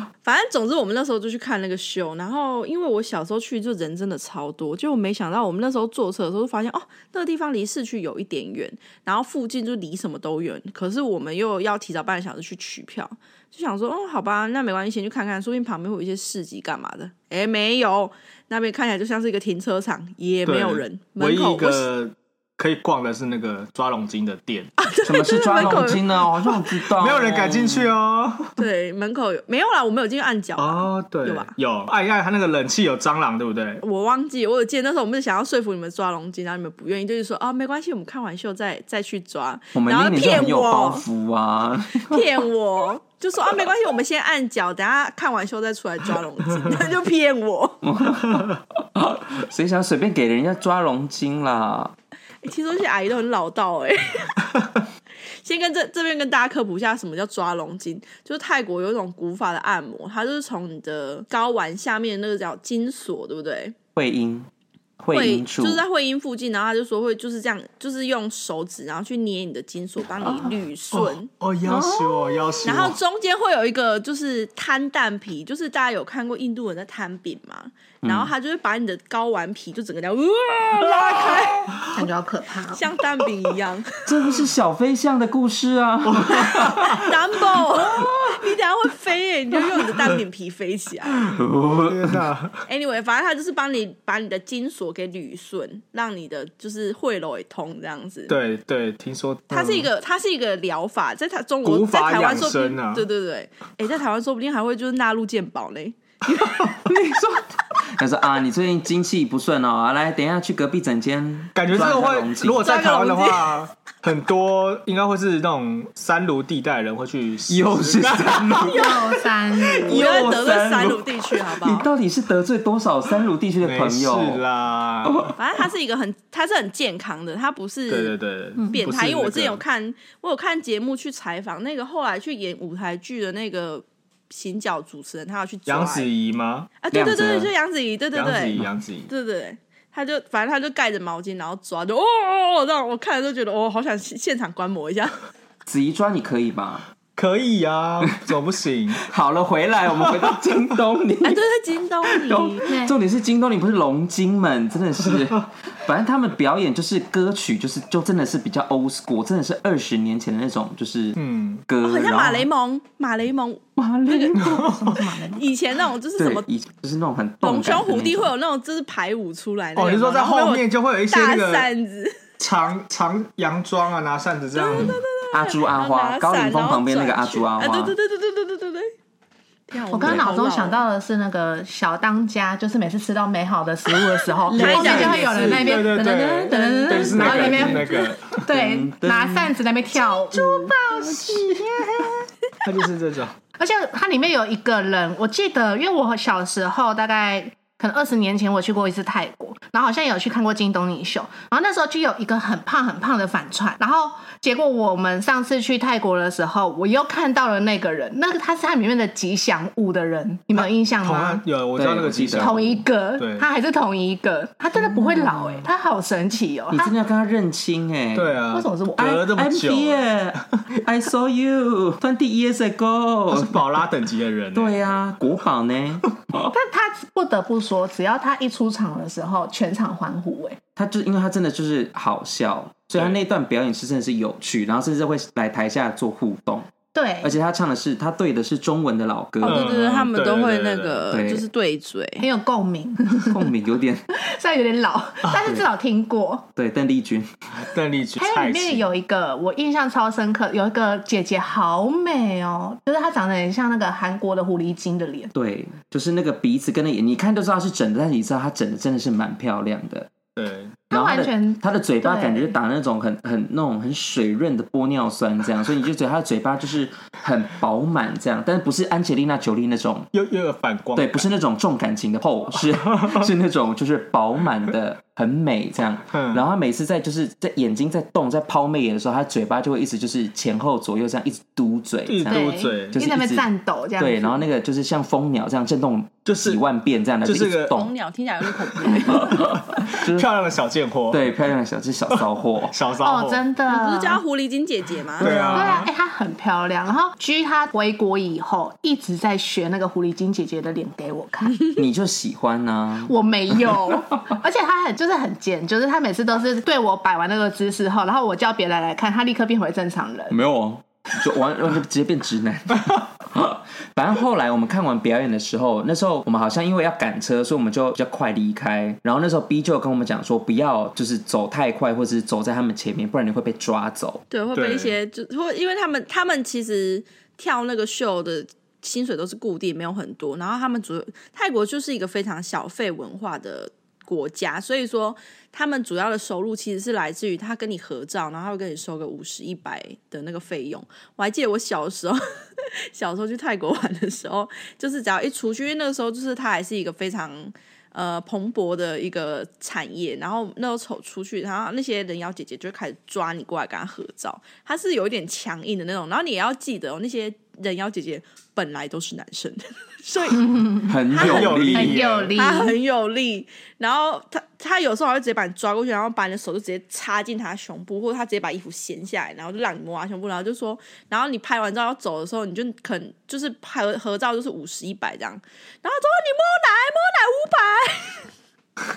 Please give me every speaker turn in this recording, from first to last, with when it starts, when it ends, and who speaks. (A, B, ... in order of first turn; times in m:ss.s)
0:00.2-0:21.9 A
0:20.5-0:24.7 B
0:24.8-0:26.0 A
0:25.0-0:27.9 C
0:27.0-0:28.5 B
0:28.6-0:31.6 A
0:30.6-0:33.8 B
0:33.8-0:41.0 A
0:39.8-0:42.2 C
0:42.0-0:47.8 A
0:47.8-0:51.9 C
0:52.4-0:54.5 A
0:55.3-1:03.8 A
1:04.0-1:04.5 C
1:05.0-1:05.8 C
1:05.1-1:11.3 A
1:10.9-1:13.0 B
1:11.6-1:12.6 C
1:12.6-1:21.8 A
1:18.0-1:18.3 C
1:21.9-1:22.8 D
1:22.7-1:24.0 A
1:24.1-1:27.0 C
1:26.4-1:31.2 A
1:31.3-1:32.2 C
1:31.9-1:32.6 B
1:32.7-1:38.4 A
1:38.3-1:39.9 B
1:39.5-1:46.6 A
1:41.6-1:43.1 B
1:46.9-1:52.7 C
1:51.6-1:58.8 B
1:52.6-1:53.6 A
1:57.5-2:04.4 C
1:58.6-2:00.2 D
1:59.9-2:01.9 A
2:03.6-2:05.3 B
2:05.0-2:05.4 C
2:05.4-2:08.2 A
2:07.9-2:09.6 B
2:08.7-2:16.1 A
2:15.7-2:16.7 B
2:16.8-2:25.2 A
2:16.9-2:17.5 C
2:18.2-2:19.1 B
2:25.7-2:26.8 C
2:27.2-2:29.0 B
2:29.0-2:31.5 C
2:31.2-2:32.6 A
2:32.1-2:42.5 C
2:32.7-2:33.0 D
2:41.2-2:41.6 B
2:41.8-2:44.4 A
2:43.8-2:45.4 C
2:44.4-2:45.0 B
2:44.6-2:45.4 D
2:45.3-2:46.5 A
2:46.2-2:48.3 C
2:47.4-2:52.2 A
2:49.8-2:51.7 B
2:52.4-2:55.0 B
2:54.5-2:58.9 A
2:55.3-2:58.0 C
2:59.7-3:00.8 A
2:59.9-3:11.4 D
3:04.5-3:11.5 C
3:04.5-3:05.7 A
3:04.5-3:08.4 B
3:11.2-3:12.0 B
3:12.6-3:13.3 B
3:13.6-3:31.4 D
3:30.6-3:33.5 B
3:31.8-3:32.7 C
3:32.4-3:37.0 D
3:34.8-3:35.7 C
3:36.7-3:38.4 C
3:38.2-3:40.4 B
3:38.5-3:39.2 D
3:39.0-3:43.6 C
3:43.3-3:44.8 B
3:44.5-3:46.5 C
3:46.5-3:50.6 D
3:50.8-3:56.7 C
3:56.9-3:57.4 D
3:57.2-3:59.6 C
3:59.4-4:02.2 A
3:59.4-4:01.1 B
4:01.1-4:01.4 C
4:02.2-4:03.5 D
4:03.3-4:04.0 C
4:04.1-4:06.5 D
4:05.3-4:05.6 C
4:06.6-4:07.3 C
4:07.6-4:08.8 B
4:08.2-4:15.3 D
4:15.3-4:20.1 C
4:20.4-4:20.8 B
4:20.9-4:22.6 D
4:20.9-4:30.1 C
4:30.1-4:31.3 B
4:31.0-4:43.5 C
4:32.9-4:33.2 B
4:36.1-4:36.4 B
4:42.1-4:43.0 B
4:42.3-4:44.4 D
4:44.0-4:47.9 C
4:46.3-4:46.6 B
4:47.2-4:47.9 B
4:47.7-4:49.5 A
4:48.8-4:51.2 B
4:49.0-4:50.3 C
4:51.1-4:52.8 C
4:52.2-4:53.4 B
4:53.0-4:54.2 D
4:53.7-4:55.6 A
4:55.2-4:55.9 C
4:55.2-4:55.9 B
4:55.5-5:01.7 D
5:01.7-5:03.1 C
5:03.0-5:10.4 D
5:10.3-5:24.2 C
5:24.3-6:00.6 A
5:24.5-5:25.0 B
6:00.4-6:00.9 D
6:00.9-6:02.0 C
6:01.2-6:02.3 B
6:01.2-6:01.5 A
6:01.7-6:02.8 D
6:02.4-6:18.3 A